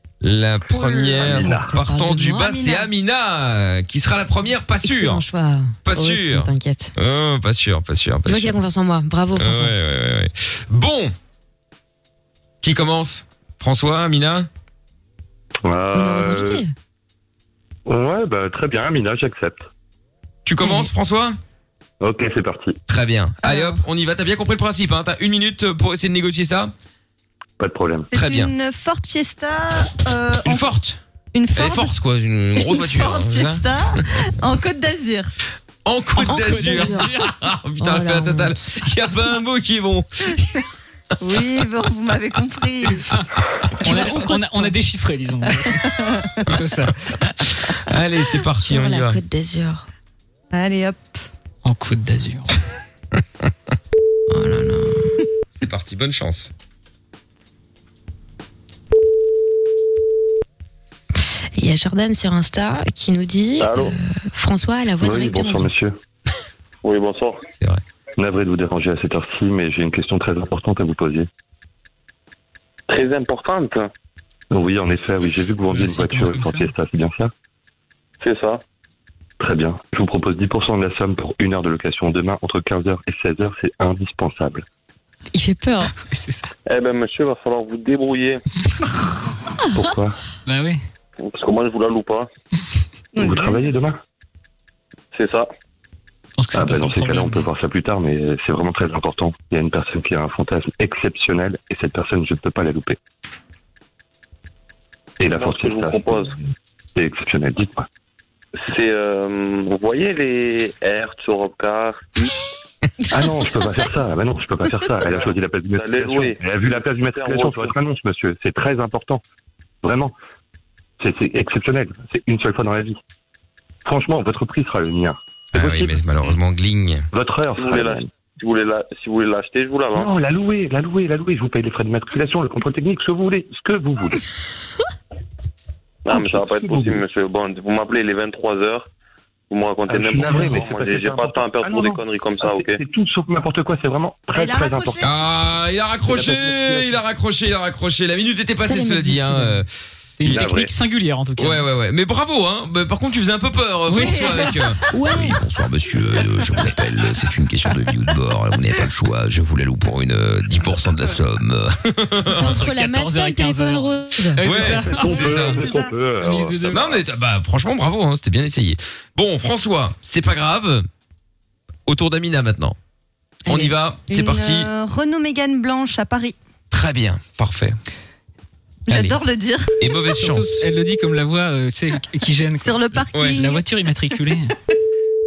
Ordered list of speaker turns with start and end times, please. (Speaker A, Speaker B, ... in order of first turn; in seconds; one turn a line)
Speaker A: 0.2-5.2
Speaker B: 0.8-2.9
Speaker C: 0.9-1.7
Speaker B: 4.8-6.9
Speaker A: 5.8-8.6
Speaker B: 8.2-9.7
Speaker A: 9.3-11.1
Speaker A: 12.6-14.5
Speaker C: 15.6-16.6
Speaker B: 15.9-16.7
Speaker C: 17.9-19.7
Speaker A: 20.4-21.4
Speaker B: 20.6-20.9
Speaker C: 22.0-22.8
Speaker A: 22.9-26.7
Speaker D: 23.4-23.8
Speaker C: 27.6-28.1
Speaker D: 28.1-30.7
Speaker A: 28.1-28.5
Speaker A: 30.4-31.0
Speaker D: 31.3-31.9
Speaker A: 31.6-33.7
Speaker D: 32.6-35.3
Speaker A: 35.8-40.6
Speaker B: 36.2-37.1
Speaker E: 36.2-37.3
Speaker B: 37.8-38.8
Speaker D: 41.2-43.1
Speaker B: 43.8-44.7
Speaker E: 43.8-47.0
Speaker D: 45.9-46.3
Speaker A: 47.2-49.2
Speaker B: 48.5-49.9
Speaker D: 50.5-51.1
Speaker E: 51.6-52.5
Speaker B: 54.3-55.1
Speaker A: 55.5-56.5
Speaker B: 61.6-65.7
Speaker C: 65.0-65.9
Speaker F: 66.8-67.4
Speaker C: 68.2-71.3
Speaker F: 72.9-73.9
Speaker C: 74.5-77.3
Speaker E: 75.7-76.7
Speaker F: 78.2-78.6
Speaker C: 79.4-84.6
Speaker B: 85.3-85.9
Speaker E: 86.1-86.5
Speaker F: 86.7-88.4
Speaker B: 89.6-89.9
Speaker C: 89.7-90.2
Speaker E: 90.5-90.8
Speaker F: 91.2-92.3
Speaker D: 93.2-93.6
Speaker C: 93.2-94.0
Speaker F: 95.1-95.5
Speaker E: 96.4-97.5
Speaker C: 96.5-103.0
Speaker C: 105.2-106.2
Speaker F: 105.3-106.3
Speaker C: 106.9-107.8
Speaker F: 108.6-112.3
Speaker C: 113.1-119.2
Speaker F: 115.8-117.7
Speaker C: 119.8-120.1
Speaker C: 121.0-123.0
Speaker C: 123.8-126.0
Speaker A: 125.5-127.1
Speaker C: 127.1-128.1
Speaker F: 127.6-130.1
Speaker C: 129.9-134.2
Speaker F: 136.1-138.9
Speaker C: 136.1-137.0
Speaker F: 139.5-142.8
Speaker C: 139.9-145.1
Speaker D: 144.3-145.1
Speaker A: 145.0-149.7
Speaker C: 146.1-146.9
Speaker B: 148.6-149.6
Speaker E: 150.2-151.6
Speaker C: 150.2-150.7
Speaker A: 151.4-162.6
Speaker E: 153.9-154.3
Speaker D: 153.9-154.8
Speaker B: 154.9-155.4
Speaker B: 162.3-164.4
Speaker E: 162.3-165.6
Speaker A: 164.4-165.7
Speaker C: 164.5-166.7
Speaker D: 165.6-165.9
Speaker E: 166.2-167.0
Speaker A: 166.7-170.9
Speaker A: 171.8-172.8
Speaker B: 173.4-173.7
Speaker A: 173.5-174.7
Speaker D: 174.1-176.3
Speaker A: 176.7-177.8
Speaker D: 178.9-179.7
Speaker A: 178.9-179.2
Speaker A: 179.8-180.6
Speaker E: 180.2-184.5
Speaker D: 182.6-183.6
Speaker A: 183.1-183.4